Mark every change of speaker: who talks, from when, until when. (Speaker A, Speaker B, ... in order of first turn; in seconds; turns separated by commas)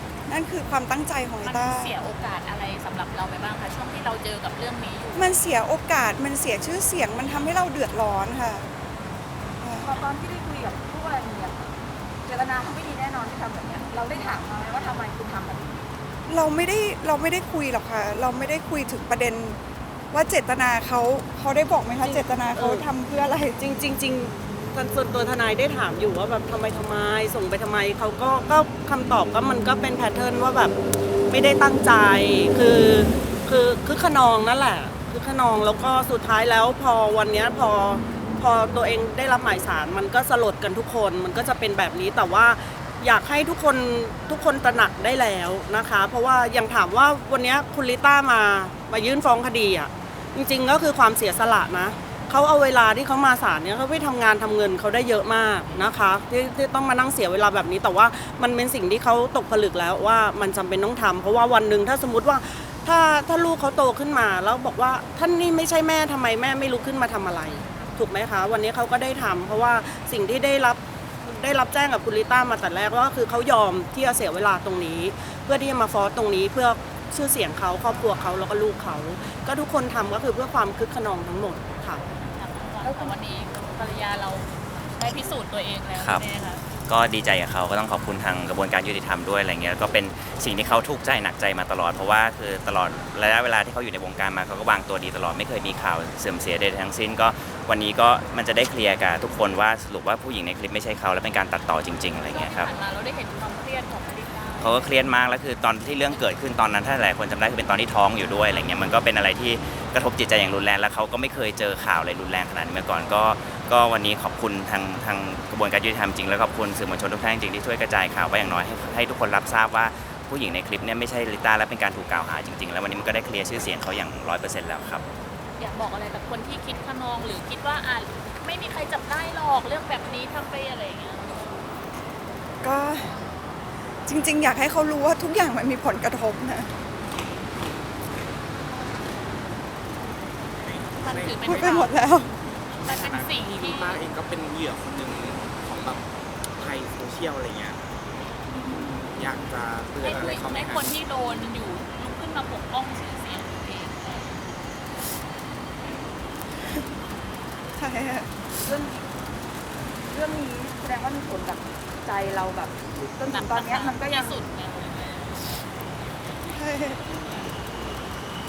Speaker A: 0.3-1.9, Speaker B: 1.4-5.4, Speaker A: 5.1-8.7, Speaker A: 9.6-9.9, Speaker C: 9.8-15.8, Speaker A: 16.3-19.6, Speaker A: 20.1-23.6, Speaker D: 22.0-22.9, Speaker D: 23.6-30.7, Speaker D: 31.3-82.0, Speaker B: 82.2-86.7, Speaker C: 82.8-83.1, Speaker E: 86.0-86.2, Speaker E: 86.8-102.7, Speaker B: 102.2-104.9, Speaker E: 104.6-125.0, Speaker B: 125.6-131.4, Speaker A: 132.6-133.1, Speaker A: 134.1-136.7, Speaker F: 140.6-141.9, Speaker B: 141.0-141.9, Speaker A: 141.4-142.3, Speaker F: 142.7-147.8, Speaker B: 142.8-144.0, Speaker F: 149.1-151.0, Speaker B: 150.0-154.3, Speaker A: 157.8-158.3, Speaker C: 158.6-159.1, Speaker C: 160.1-164.4, Speaker B: 163.2-165.3, Speaker A: 166.5-167.1